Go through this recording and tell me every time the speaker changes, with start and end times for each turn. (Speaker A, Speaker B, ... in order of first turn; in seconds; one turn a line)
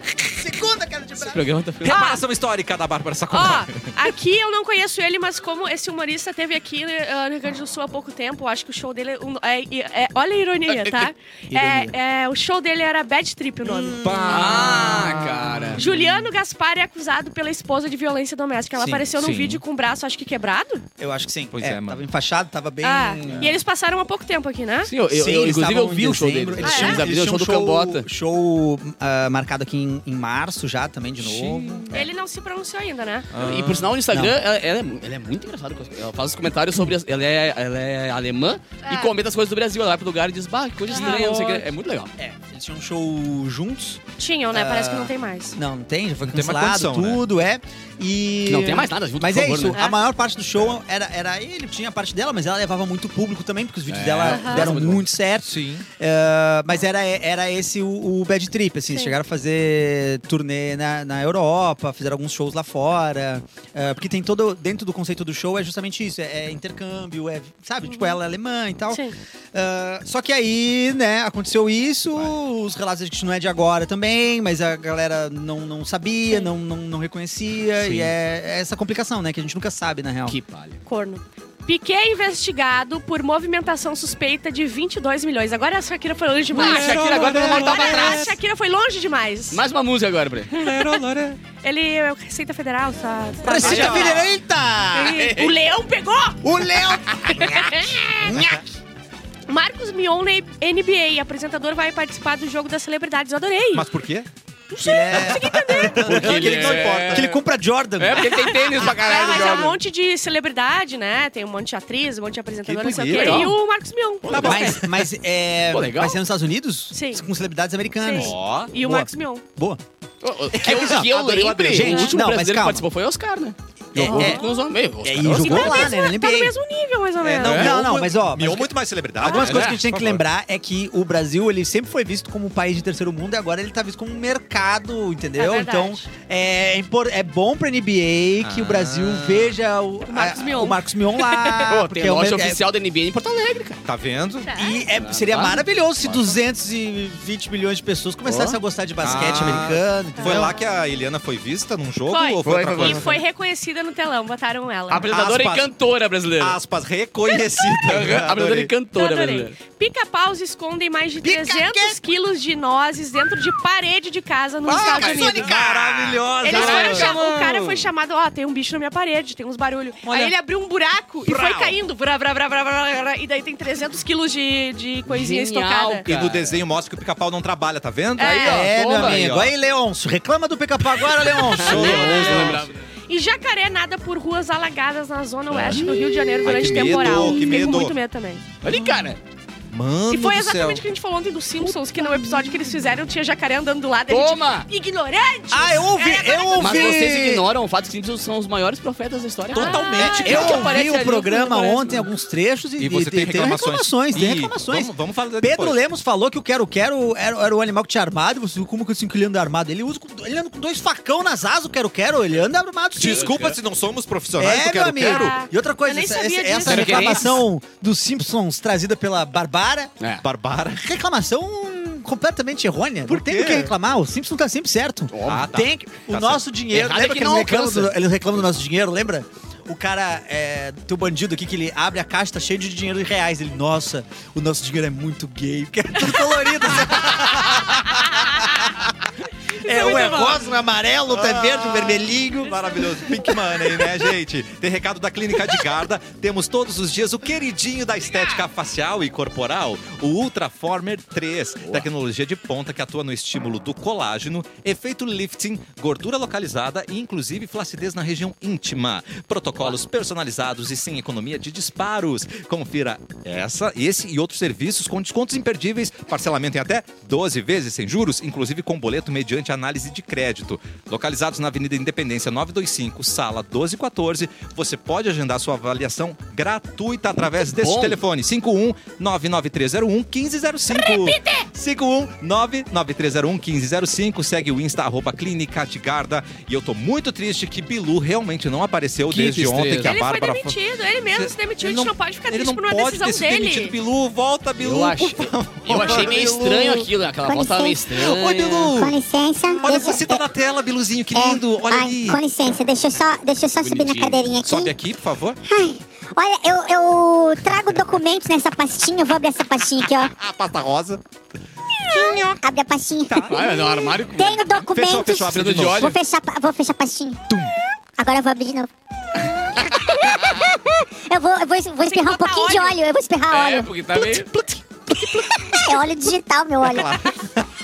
Speaker A: 0.2-1.5
Speaker B: 1.2-2.0
Speaker C: 1.8-3.9
Speaker D: 1.9-2.2
Speaker D: 3.3-14.6
Speaker B: 10.7-11.1
Speaker A: 11.5-11.9
Speaker A: 13.6-14.8
Speaker C: 14.0-15.9
Speaker B: 14.3-15.8
Speaker D: 15.8-20.8
Speaker A: 18.8-19.1
Speaker C: 19.1-19.6
Speaker A: 21.0-23.6
Speaker C: 21.5-22.0
Speaker D: 22.8-24.9
Speaker C: 23.3-23.5
Speaker B: 24.9-28.1
Speaker A: 25.1-32.1
Speaker D: 26.6-27.0
Speaker C: 31.2-32.0
Speaker D: 31.9-33.3
Speaker C: 33.3-33.9
Speaker B: 33.3-42.1
Speaker A: 34.1-34.4
Speaker D: 38.8-39.1
Speaker D: 40.9-41.6
Speaker C: 41.0-41.3
Speaker A: 42.2-80.3
Speaker D: 44.2-45.6
Speaker C: 46.2-47.2
Speaker B: 48.5-49.8
Speaker D: 49.7-50.0
Speaker B: 53.9-55.0
Speaker D: 54.2-54.6
Speaker C: 55.4-55.9
Speaker D: 67.8-68.2
Speaker B: 80.3-80.8
Speaker D: 80.8-89.6
Speaker B: 86.5-88.3
Speaker C: 86.5-88.3
Speaker B: 89.5-90.6
Speaker C: 90.5-91.4
Speaker D: 90.7-91.0
Speaker D: 91.6-94.2
Speaker A: 93.4-95.3
Speaker C: 93.5-94.3
Speaker B: 93.7-94.0
Speaker D: 94.9-96.5
Speaker B: 95.0-95.5
Speaker A: 96.4-98.7
Speaker D: 97.3-98.4
Speaker D: 99.5-103.9
Speaker C: 103.7-104.3
Speaker D: 104.7-106.3
Speaker A: 104.7-108.6
Speaker C: 105.1-107.3
Speaker B: 106.0-107.4
Speaker B: 108.0-109.7
Speaker D: 108.2-114.6
Speaker C: 112.6-113.5
Speaker B: 113.1-113.5
Speaker B: 114.2-114.8
Speaker C: 114.3-114.8
Speaker A: 114.3-119.8
Speaker B: 115.7-116.2
Speaker D: 116.9-117.2
Speaker D: 118.0-119.4
Speaker C: 118.1-118.7
Speaker B: 120.2-125.9
Speaker A: 120.6-122.8
Speaker C: 120.6-122.1
Speaker A: 123.9-124.4
Speaker C: 124.0-124.3
Speaker D: 124.0-124.7
Speaker A: 125.0-126.5
Speaker D: 125.3-127.8
Speaker C: 127.2-130.2
Speaker A: 127.4-142.6
Speaker B: 127.4-127.7
Speaker D: 129.2-129.7
Speaker B: 129.4-129.8
Speaker D: 135.4-136.1
Speaker C: 138.4-139.5
Speaker D: 140.1-141.7
Speaker B: 141.6-143.8
Speaker C: 143.8-144.5
Speaker D: 144.4-144.8
Speaker A: 144.5-150.6
Speaker B: 144.9-146.3
Speaker B: 148.2-148.6
Speaker C: 149.0-153.1
Speaker D: 150.2-150.6
Speaker D: 152.1-155.0
Speaker B: 152.4-153.2
Speaker B: 154.9-156.6
Speaker C: 154.9-155.7
Speaker C: 156.4-158.7
Speaker D: 157.3-158.0
Speaker B: 157.8-159.6
Speaker D: 158.9-165.6
Speaker A: 161.2-162.0
Speaker B: 164.7-165.4
Speaker A: 164.7-167.2
Speaker C: 165.0-166.2
Speaker D: 166.4-176.0
Speaker B: 166.4-167.9
Speaker A: 170.0-170.3
Speaker A: 171.2-171.7
Speaker B: 175.1-176.6
Speaker C: 176.1-179.5
Speaker D: 178.2-178.7
Speaker B: 178.2-179.3
Speaker A: 178.4-182.6
Speaker C: 181.3-182.7
Speaker B: 181.5-182.8
Speaker D: 182.0-182.6
Speaker D: 183.1-188.4
Speaker C: 185.5-187.9
Speaker A: 185.8-187.7
Speaker B: 188.6-189.2
Speaker C: 189.7-190.8
Speaker D: 190.1-197.1
Speaker A: 192.1-192.4
Speaker B: 194.1-194.7
Speaker A: 195.5-197.4
Speaker B: 196.6-200.9
Speaker C: 199.5-200.7
Speaker D: 199.5-202.0
Speaker A: 200.2-213.4
Speaker C: 202.8-205.8
Speaker C: 213.0-215.4
Speaker B: 213.1-213.6
Speaker A: 214.4-219.9
Speaker D: 215.0-217.4
Speaker B: 216.6-217.4
Speaker C: 220.2-220.8
Speaker A: 220.8-238.9
Speaker C: 223.1-223.7
Speaker B: 225.1-225.5
Speaker C: 225.2-226.4
Speaker B: 226.7-228.0
Speaker C: 236.9-237.7
Speaker A: 239.6-243.3
Speaker D: 239.6-240.4
Speaker C: 241.1-290.6
Speaker B: 248.0-248.4
Speaker B: 251.6-251.9
Speaker B: 277.4-278.0
Speaker D: 280.7-281.4
Speaker B: 289.1-290.0
Speaker D: 289.8-293.7
Speaker C: 291.1-296.9
Speaker B: 294.6-298.6
Speaker E: 297.2-300.2
Speaker C: 297.9-298.9
Speaker C: 299.6-302.2
Speaker E: 301.1-304.7
Speaker B: 303.6-304.2
Speaker C: 304.4-305.4
Speaker E: 305.4-310.1
Speaker C: 310.1-311.0
Speaker E: 311.9-317.2
Speaker C: 313.1-313.4
Speaker B: 313.2-314.6
Speaker C: 314.7-316.0
Speaker B: 315.2-316.0
Speaker E: 318.0-327.0
Speaker D: 321.8-322.8
Speaker B: 323.3-324.3
Speaker C: 326.6-327.4